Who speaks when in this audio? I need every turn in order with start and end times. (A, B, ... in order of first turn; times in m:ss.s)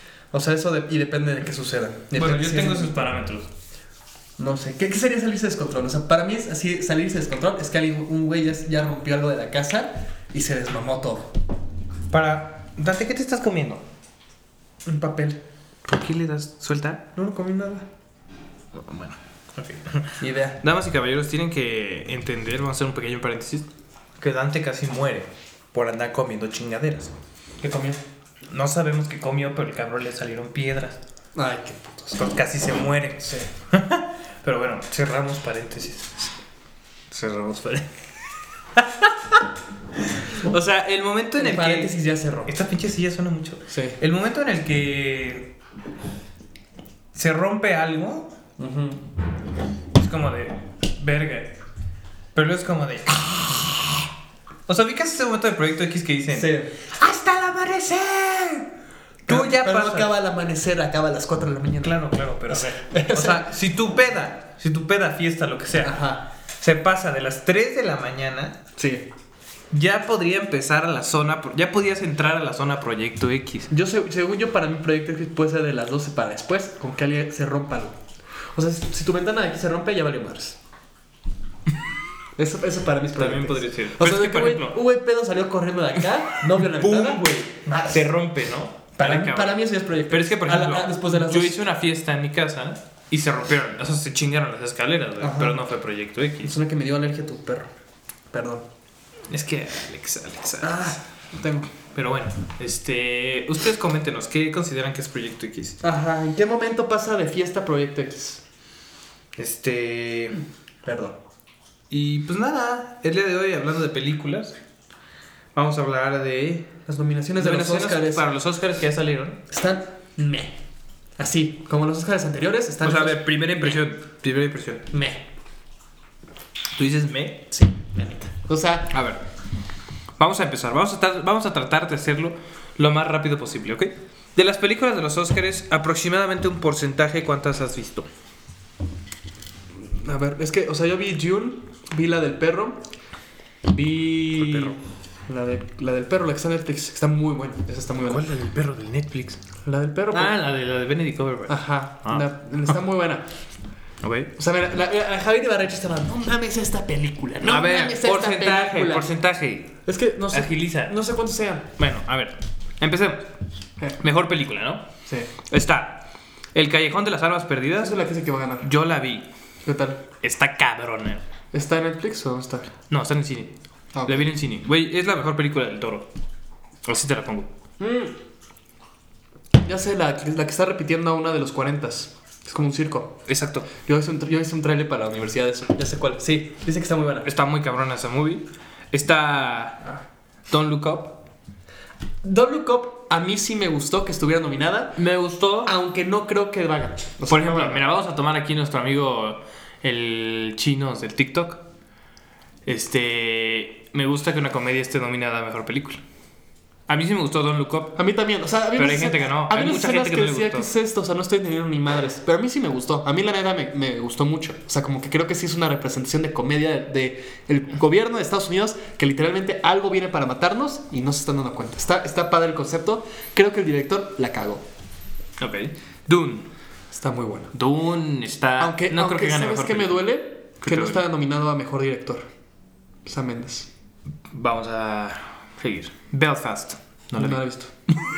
0:00.3-0:03.0 A
0:02.1-0:03.5 B
0:04.4-0:11.3 A
0:12.1-0:13.8 B
0:14.8-0:15.4 A
0:15.8-0:17.0 B
0:17.2-0:17.9 A
0:18.7-0:23.7 B
0:20.2-0:20.6 A
0:24.2-0:27.1 B
0:27.6-0:28.0 A
0:28.5-0:31.0 B
0:31.4-0:32.2 A
0:32.1-0:36.3 B
0:33.2-0:33.5 A
0:37.1-0:37.9 B
0:38.7-0:39.4 B
0:40.0-0:41.9 B
0:41.4-0:42.5 A
0:42.5-0:45.5 B
0:43.7-0:44.0 A
0:47.1-0:48.3 B
0:48.6-0:49.0 A
0:50.0-0:51.6 B
0:52.4-0:54.1 B
0:54.7-0:58.7 B
0:56.3-0:56.7 A
0:59.3-1:00.1 B
0:59.3-1:03.5 A
1:01.8-1:08.6 B
1:05.8-1:06.2 A
1:08.8-1:09.1 A
1:09.7-1:13.7 B
1:13.7-1:18.0 A
1:18.5-1:20.6 A
1:22.4-1:28.1 A
1:23.2-1:24.8 B
1:26.4-1:36.5 B
1:29.0-1:31.6 A
1:35.2-1:35.6 A
1:36.4-1:37.7 A
1:38.3-1:38.7 A
1:39.3-1:41.0 B
1:40.6-1:41.7 A
1:41.9-1:45.8 B
1:45.8-1:48.4 A
1:49.4-1:50.4 B
1:50.8-1:51.2 A
1:51.9-1:54.6 B
1:55.6-1:56.8 B
1:56.9-1:58.4 A
1:57.4-1:59.4 B
1:59.5-2:00.6 A
2:01.2-2:03.7 A
2:02.8-2:04.9 B
2:04.9-2:05.2 A
2:06.8-2:07.4 B
2:07.5-2:09.0 A
2:08.9-2:09.2 B
2:10.2-2:18.1 B
2:19.8-2:22.8 A
2:23.7-2:24.8 A
2:24.4-2:24.8 B
2:25.3-2:28.3 A
2:28.0-2:29.4 B
2:29.6-2:30.4 A
2:30.1-2:32.2 B
2:31.5-2:33.2 A
2:34.0-2:34.3 B
2:34.4-2:39.1 A
2:37.4-2:39.8 B
2:39.9-2:41.7 A
2:40.3-2:41.0 B
2:41.8-2:43.3 B
2:44.0-2:44.9 B
2:45.1-2:45.3 A
2:45.5-2:48.0 B
2:47.8-2:48.7 A
2:48.6-2:49.3 B
2:49.6-2:50.0 A
2:50.2-2:51.2 B
2:51.5-2:52.7 A
2:52.9-2:53.5 B
2:53.9-2:54.3 A
2:54.1-2:56.1 B
2:56.8-2:57.5 B
2:57.8-2:58.2 A
2:59.6-3:03.2 A
3:03.3-3:03.7 B
3:03.8-3:07.3 A
3:07.2-3:09.9 B
3:10.5-3:11.2 B
3:12.2-3:15.0 A
3:15.0-3:15.7 B
3:15.6-3:17.9 A
3:17.3-3:21.6 B
3:22.6-3:26.0 B
3:26.9-3:28.0 B
3:28.0-3:44.6 A
3:28.8-3:30.7 B
3:45.4-3:46.5 B
3:46.9-3:47.5 A
3:47.5-3:50.0 B
3:48.6-3:52.3 A
3:50.6-3:51.0 B
3:53.0-3:53.7 A
3:54.3-3:57.4 B
3:57.2-3:57.7 A